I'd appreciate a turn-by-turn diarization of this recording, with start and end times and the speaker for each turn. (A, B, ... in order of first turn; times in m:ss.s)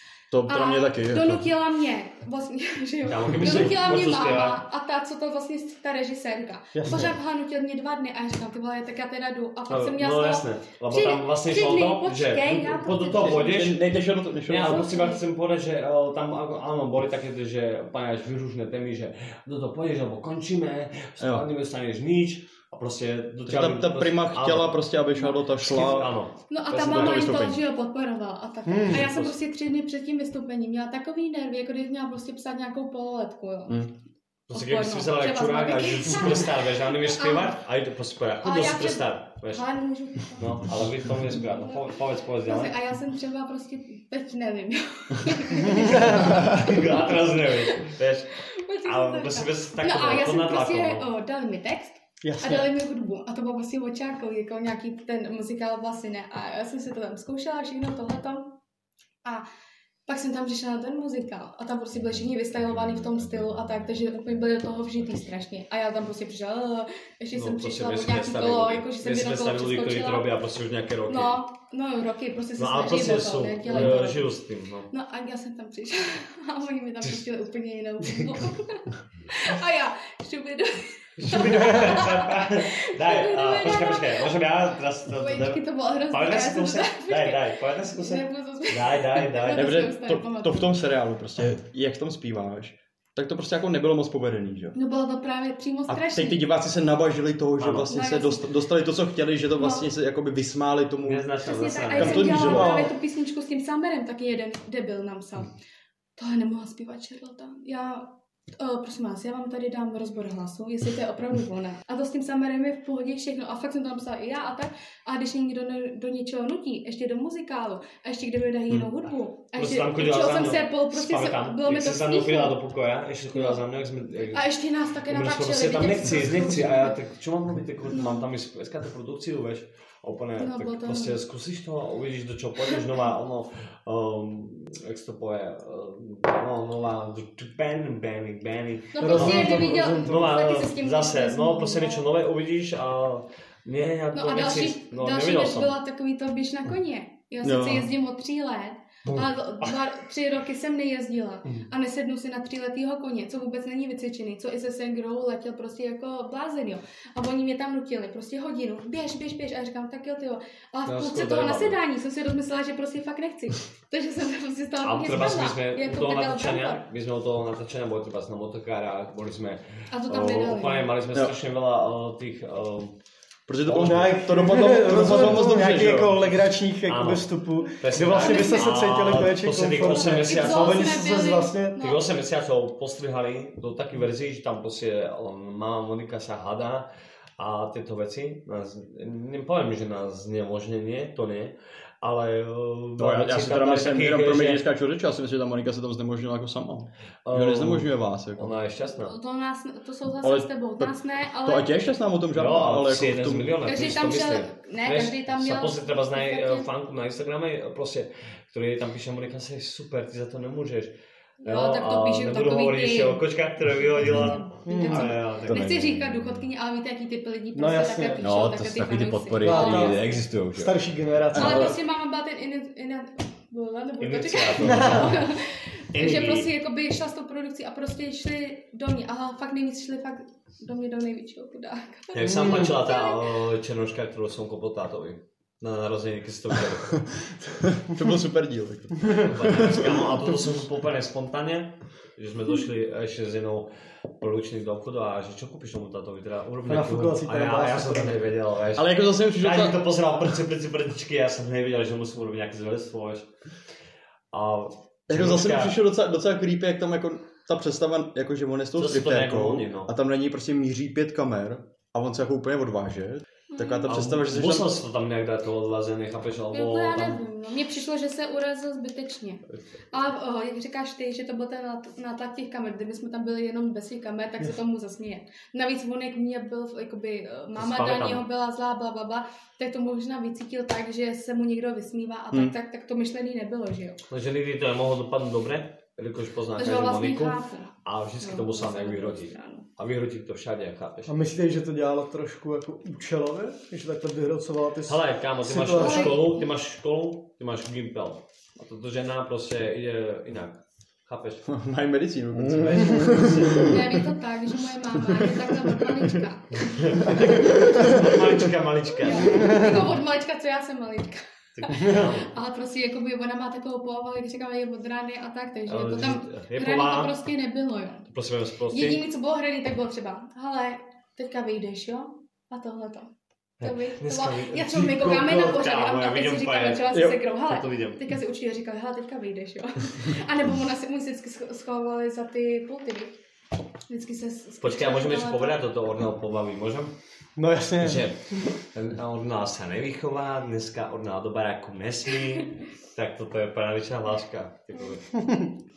0:00.3-0:01.5 A
0:00.5-0:13.7 B
0:03.0-0:04.6 C
0:06.7-0:07.1 D
0:09.7-0:13.8 C
0:13.2-0:14.9 A
0:14.5-0:24.9 C
0:14.6-0:15.2 B
0:21.2-0:21.4 A
0:23.4-0:26.2 A
0:25.6-0:27.5 C
0:26.5-0:33.9 B
0:26.8-0:27.6 A
0:28.6-0:29.0 D
0:28.9-0:29.4 C
0:34.5-0:39.7 C
0:34.5-0:37.5 B
0:38.4-0:40.6 B
0:40.2-0:42.8 C
0:41.3-0:41.9 B
0:42.4-0:47.9 B
0:45.7-0:46.2 D
0:46.0-0:51.1 C
0:48.5-0:58.5 B
0:52.2-0:52.7 D
1:00.1-1:10.3 B
1:07.3-1:11.4 C
1:11.1-1:14.3 B
1:12.6-1:14.9 C
1:14.9-1:24.3 B
1:21.2-1:29.9 C
1:25.1-1:30.7 B
1:29.5-1:34.8 A
1:34.7-1:36.4 B
1:35.9-1:41.3 A
1:37.6-1:37.9 C
1:37.9-1:38.5 B
1:39.6-1:39.9 B
1:41.0-1:42.6 C
1:41.4-1:45.5 B
1:41.9-1:42.8 A
1:42.4-1:42.9 D
1:46.2-2:02.6 B
1:59.5-2:04.5 C
2:03.3-2:03.6 B
2:04.3-2:07.0 B
2:05.1-2:25.7 C
2:10.4-2:11.2 B
2:18.9-2:22.0 B
2:19.0-2:20.3 D
2:24.1-2:46.8 B
2:27.4-2:27.9 A
2:40.8-2:41.8 C
2:44.8-2:52.9 C
2:49.9-2:50.9 B
2:53.5-2:56.2 A
2:53.7-2:54.0 C
2:53.7-3:01.8 D
2:56.9-3:01.0 C
2:58.0-2:58.9 B
2:59.9-3:02.0 B
3:01.8-3:06.9 C
3:07.4-3:14.7 C
3:13.0-3:18.5 A
3:17.2-3:19.2 C
3:18.8-3:21.7 B
3:20.2-3:23.6 A
3:22.3-3:30.9 C
3:23.6-3:26.7 B
3:31.4-3:35.8 C
3:31.4-3:33.2 B
3:33.9-3:40.1 B
3:34.6-3:35.1 D
3:35.4-3:36.2 E
3:37.5-3:38.2 D
3:38.2-3:40.9 E
3:39.4-3:40.0 D
3:40.5-3:41.7 D
3:41.3-3:53.2 B
3:41.4-3:41.7 A
3:44.0-3:45.3 C
3:44.6-3:45.1 D
3:45.9-3:46.5 C
3:52.1-3:57.0 C
3:52.2-3:52.7 D
3:57.7-4:00.0 A
3:59.2-4:03.7 C
4:04.2-4:13.3 C
4:06.7-4:08.2 D
4:08.7-4:09.8 A
4:14.3-4:15.8 C
4:15.1-4:24.8 A
4:18.8-4:19.9 C
4:23.5-4:23.9 B
4:23.8-4:27.2 C
4:26.5-4:44.0 B
4:37.6-4:38.2 C
4:44.1-4:51.2 C
4:46.6-4:49.6 B
4:51.1-4:56.3 D
4:54.9-5:01.5 C
4:55.8-4:56.4 B
5:01.5-5:03.9 A
5:02.5-5:03.7 C
5:03.6-5:06.9 B
5:06.8-5:10.0 C
5:09.0-5:18.1 B
5:11.5-5:12.3 C
5:15.7-5:17.2 C
5:18.1-5:19.0 C
5:18.7-5:23.1 B
5:23.6-5:28.0 C
5:23.6-5:33.1 B
5:33.9-5:35.6 B
5:34.6-5:36.9 C
5:37.4-5:38.1 D
5:37.8-5:45.0 C